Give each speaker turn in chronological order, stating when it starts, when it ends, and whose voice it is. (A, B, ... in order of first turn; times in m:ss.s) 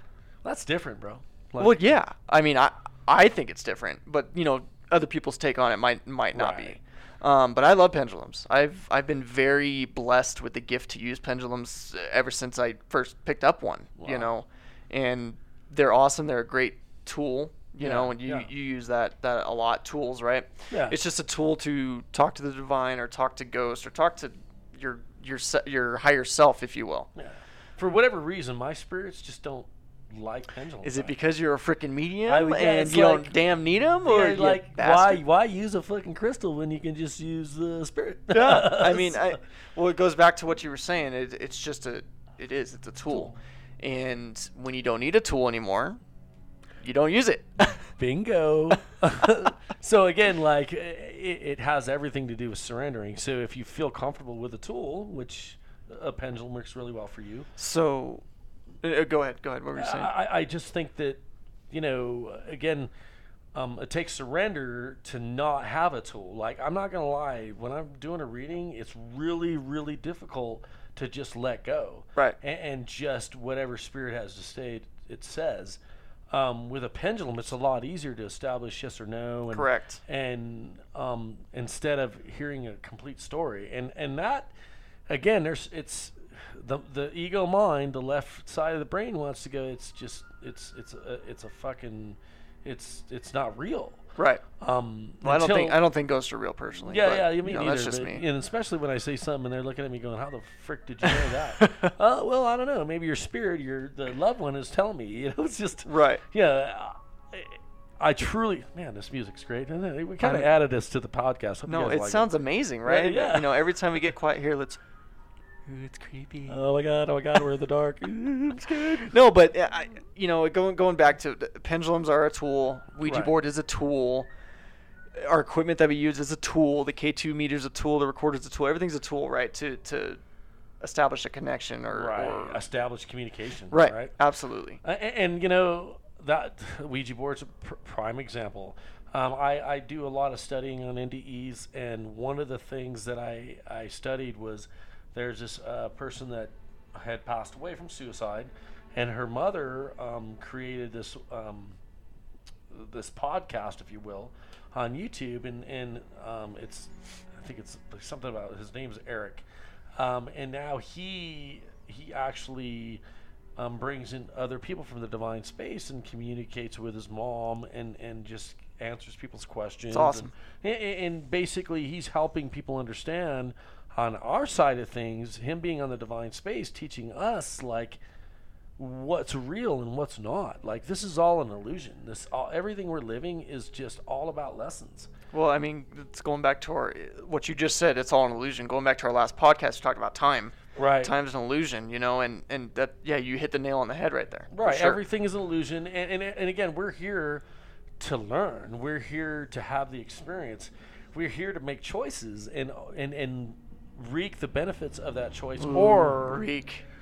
0:00.4-0:01.9 A
0:01.6-0:27.1 B
0:06.3-0:06.8 A
0:14.0-0:14.3 A
0:17.8-0:18.5 A
0:20.7-0:21.0 A
0:27.2-0:31.2 A
0:30.8-0:35.2 B
0:32.3-0:33.4 A
0:34.0-0:39.4 A
0:38.3-0:46.0 B
0:46.8-0:47.8 B
0:47.8-0:57.5 A
0:57.6-0:58.2 B
0:58.8-1:00.1 B
0:59.8-1:02.9 A
1:03.5-1:15.8 A
1:16.3-1:24.5 A
1:19.5-1:20.0 B
1:25.1-1:34.0 A
1:34.2-1:34.4 B
1:34.6-1:35.8 A
1:35.2-1:38.2 B
1:36.9-1:52.3 A
1:41.0-1:41.9 B
1:45.9-1:46.2 B
1:50.2-1:50.5 B
1:51.7-1:54.8 B
1:52.8-1:53.6 A
1:55.7-1:56.6 B
1:56.5-1:59.1 A
1:59.1-2:04.3 B
2:03.0-2:03.3 A
2:05.2-2:10.2 B
2:10.8-2:12.6 B
2:11.9-2:14.1 A
2:13.7-2:14.8 B
2:14.8-2:31.8 A
2:32.7-2:39.4 A
2:40.0-2:43.0 A
2:43.6-2:58.0 A
2:49.9-2:50.3 B
2:58.8-3:05.1 A
3:05.3-3:15.0 B
3:10.8-3:11.1 A
3:14.5-3:17.4 A
3:18.0-3:26.5 A
3:25.6-3:26.8 B